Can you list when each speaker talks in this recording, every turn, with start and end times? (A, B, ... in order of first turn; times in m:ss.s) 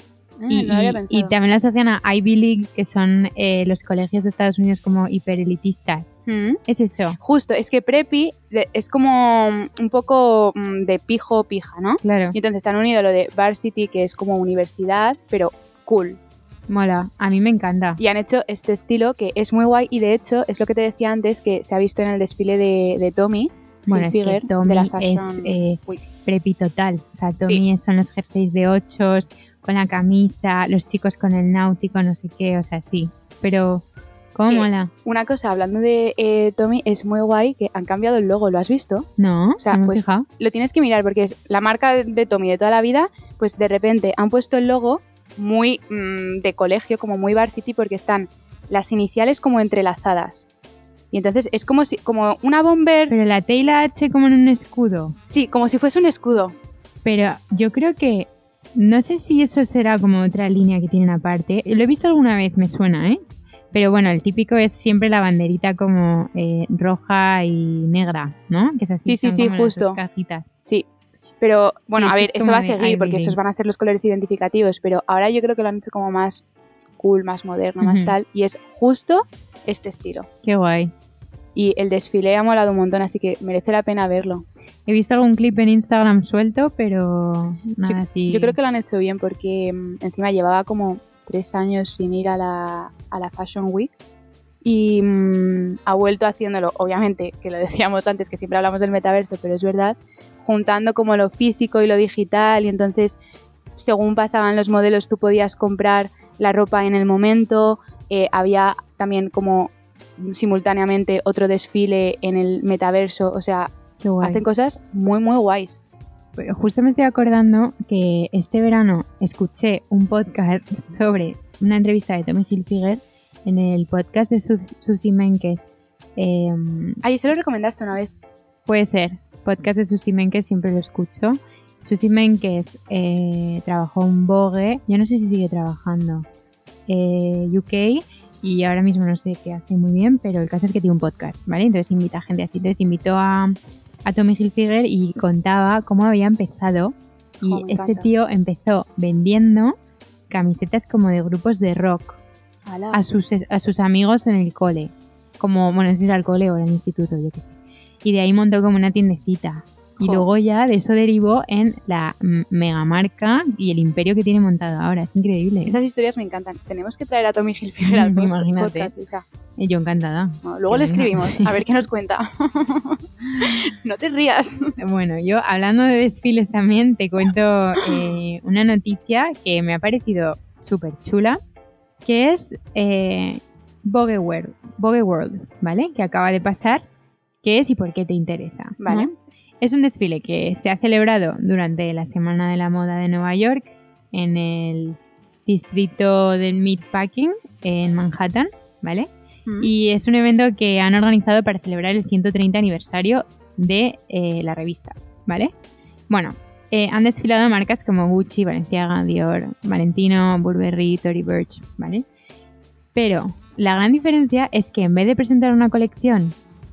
0:00.4-0:01.3 A
0:00.5-0:07.2 B
0:06.3-0:06.6 A
0:07.2-0:16.2 A
0:12.0-0:12.4 B
0:16.7-0:18.0 B
0:18.0-0:26.0 A
0:23.9-0:34.9 B
0:34.5-0:39.1 A
0:39.2-0:40.3 B
0:39.6-0:50.4 A
0:51.1-0:53.1 A
0:53.1-0:55.2 B
0:55.3-0:56.6 A
0:57.0-1:03.2 B
1:03.7-1:10.5 B
1:09.0-1:10.0 A
1:11.4-1:16.4 A
1:11.9-1:13.4 B
1:17.0-1:20.3 A
1:17.8-1:18.1 B
1:20.4-1:20.9 B
1:21.5-1:24.4 A
1:24.8-1:28.6 B
1:27.9-1:33.9 A
1:34.6-1:43.2 A
1:43.8-1:55.8 A
1:54.0-1:54.4 B
1:56.4-2:07.0 B
2:07.0-2:08.1 A
2:08.7-2:16.2 B
2:16.9-2:29.7 B
2:27.4-2:28.1 A
2:30.3-2:32.2 B
2:32.7-2:33.0 A
2:32.9-2:45.8 B
2:40.0-2:40.3 A
2:45.6-2:49.2 A
2:47.9-2:48.9 B
2:49.6-2:51.6 B
2:50.4-2:54.7 A
2:54.8-3:01.4 B
3:02.0-3:06.8 B
3:07.4-3:19.1 B
3:08.8-3:09.1 A
3:19.6-3:25.5 B
3:26.1-3:32.0 B
3:32.9-3:36.4 B